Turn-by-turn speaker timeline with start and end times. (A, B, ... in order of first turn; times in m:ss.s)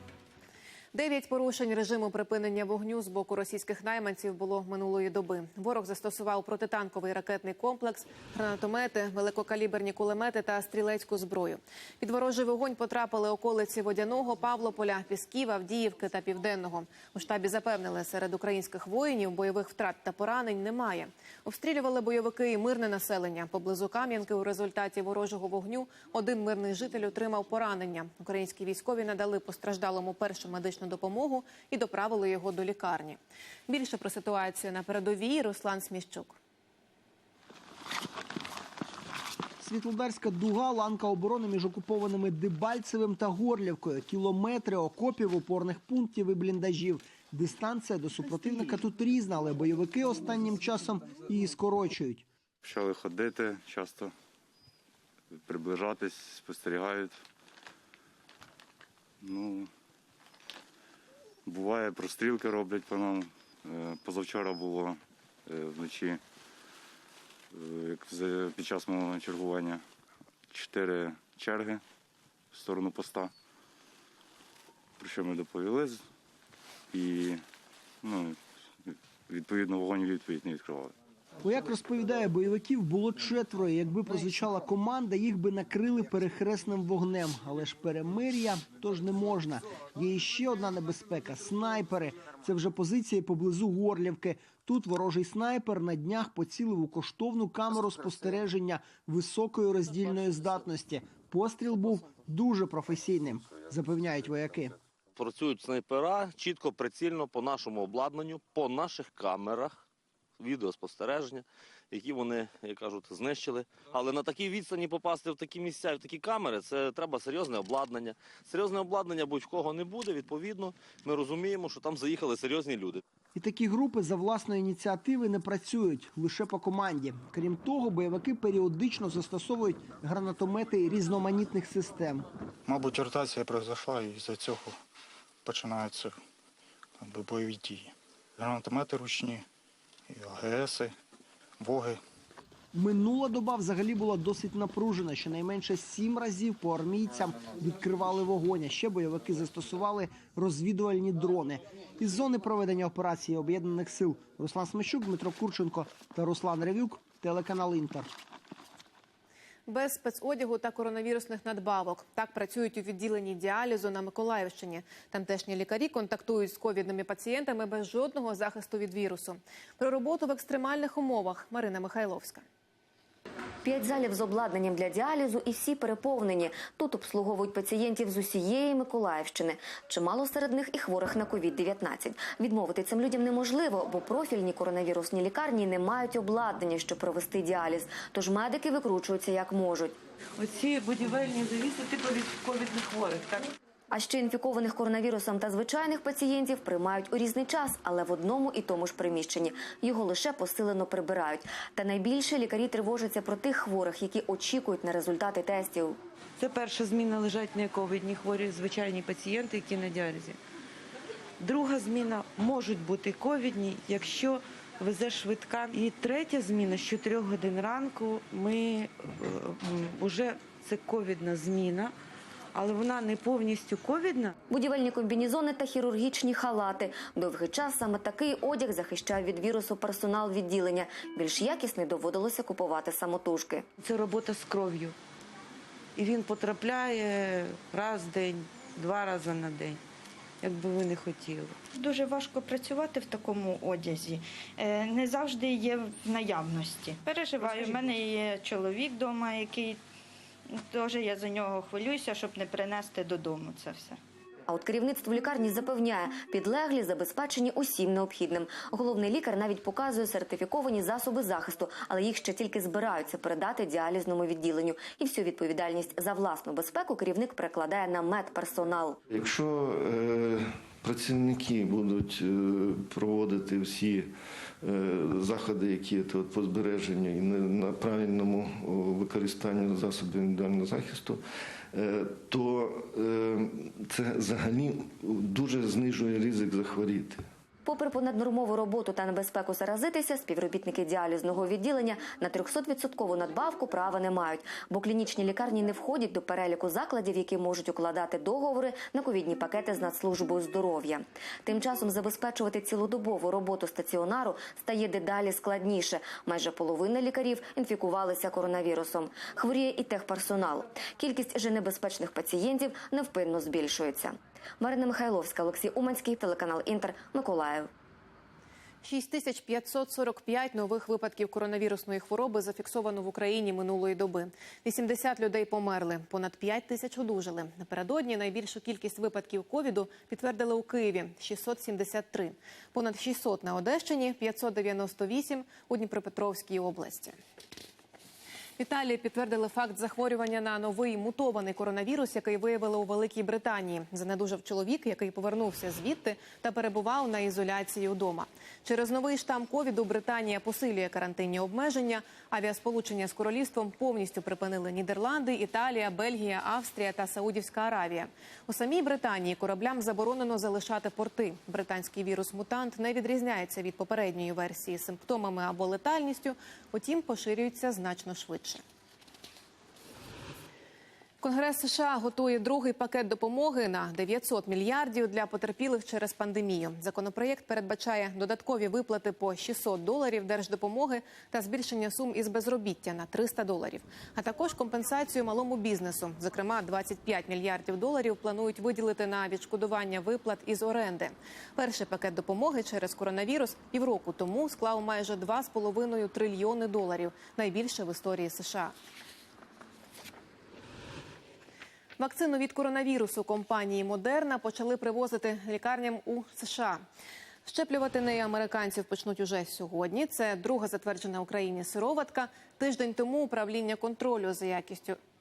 0:00.9-0:36.4 A
0:39.6-0:52.2 B
0:52.6-0:54.1 C
0:55.3-0:57.2 C
0:59.2-0:59.7 C
1:01.5-1:06.2 C
1:07.5-1:09.8 C
1:10.5-1:11.8 C
1:12.5-1:13.3 C
1:15.0-1:16.0 C
1:16.9-1:17.4 C
1:18.0-1:20.9 C
1:21.4-1:44.8 B
1:45.2-1:49.8 D
1:50.4-2:03.0 D
2:03.4-2:12.2 B
2:12.7-2:14.7 E
2:15.5-2:16.1 E
2:17.0-2:19.4 E
2:20.2-2:20.9 E
2:21.6-2:22.0 E
2:22.7-2:38.1 B
2:39.7-2:52.5 A
2:53.6-3:10.0 F
3:10.4-3:13.4 G
3:13.9-3:26.0 F
3:26.4-3:30.4 G
3:34.3-3:34.9 G
3:36.7-3:37.6 G
3:40.3-3:40.8 G
3:44.5-3:53.7 F
3:53.9-3:54.9 G
3:56.0-3:57.0 G
3:57.7-3:59.8 G
4:00.4-4:01.6 G
4:01.8-4:09.8 H
4:07.3-4:08.0 G
4:10.6-4:14.0 H
4:14.5-4:29.0 F
4:29.1-4:41.2 I
4:41.7-4:47.2 I
4:47.6-5:17.7 F
5:18.8-5:37.2 A
5:38.6-6:08.6 A
6:11.2-6:38.8 A
6:42.0-6:46.8 A
6:47.4-6:55.0 A